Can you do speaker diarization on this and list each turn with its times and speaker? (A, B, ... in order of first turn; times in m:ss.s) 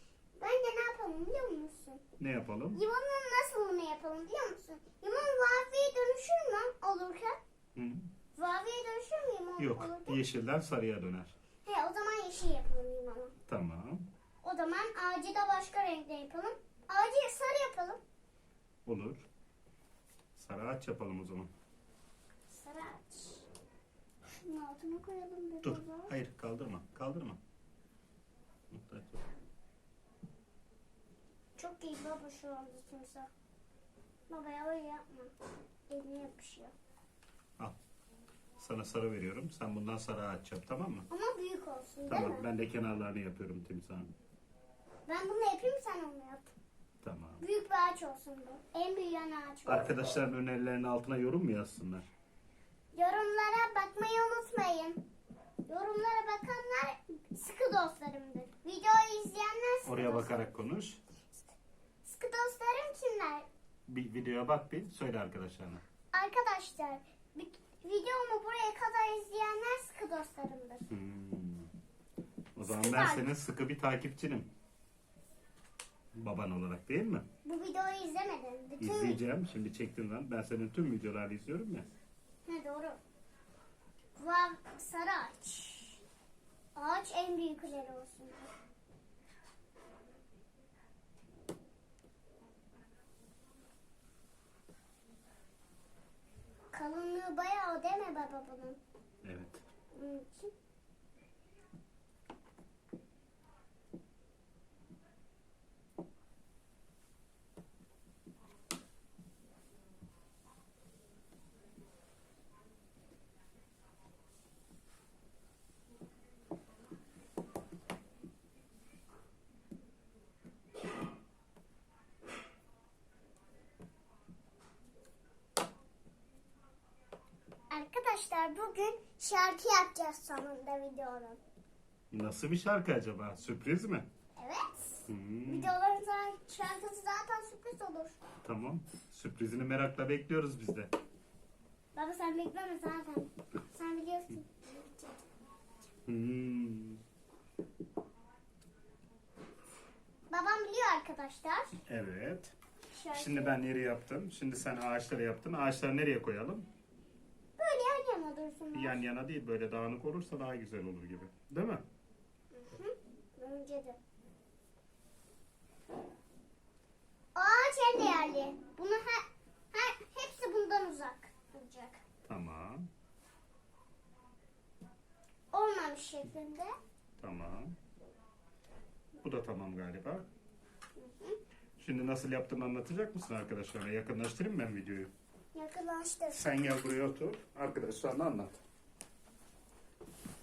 0:00.4-0:02.0 A
0:02.2-0:02.8 B
0:02.7-0:07.4 A
0:07.7-0:08.1 B
0:08.4-0:10.2 A
0:09.6-0:11.3 B
0:11.6-0:13.3 A
0:13.5-0:14.0 B
0:14.4-0:18.0 A
0:18.8-0:19.2 B
0:20.4-0:21.5 B
0:22.5-0:23.4 A
0:24.3-0:26.1 A
0:25.6-0:27.4 B
0:28.7-0:29.2 B
0:31.6-0:33.3 A
0:34.3-0:35.3 A
0:35.9-0:36.7 A
0:38.6-0:41.0 B
0:41.1-0:42.4 A
0:42.1-0:44.1 B
0:45.1-0:46.5 A
0:47.0-0:47.4 B
0:47.4-0:49.9 A
0:49.6-0:52.1 B
0:52.9-0:55.0 A
0:55.7-1:00.5 A
0:59.8-1:01.0 B
1:02.0-1:03.5 A
1:03.9-1:05.8 B
1:06.1-1:10.9 A
1:10.9-1:11.7 B
1:12.5-1:14.5 B
1:12.6-1:13.3 A
1:16.1-1:17.2 B
1:17.4-1:19.2 A
1:18.8-1:21.8 B
1:22.4-1:23.0 A
1:24.2-1:26.0 A
1:26.8-1:28.5 A
1:36.7-1:38.8 A
1:39.2-1:39.6 B
1:39.9-1:40.5 A
2:07.7-2:11.4 A
2:12.1-2:14.0 B
2:14.4-2:18.2 A
2:15.1-2:15.7 B
2:18.4-2:20.9 B
2:21.9-2:25.2 A
2:26.0-2:27.0 B
2:30.3-2:31.8 A
2:31.9-2:32.5 B
2:32.9-2:33.5 A
2:33.1-2:36.7 B
2:37.6-2:39.0 A
2:38.7-2:41.8 B
2:42.5-2:44.0 A
2:47.4-2:52.0 A
2:52.3-2:52.9 B
2:55.5-2:56.7 A
2:57.2-2:57.7 B
2:59.2-3:00.2 B
3:01.0-3:01.4 A
3:01.8-3:05.1 B
3:05.5-3:06.4 A
3:06.3-3:08.6 B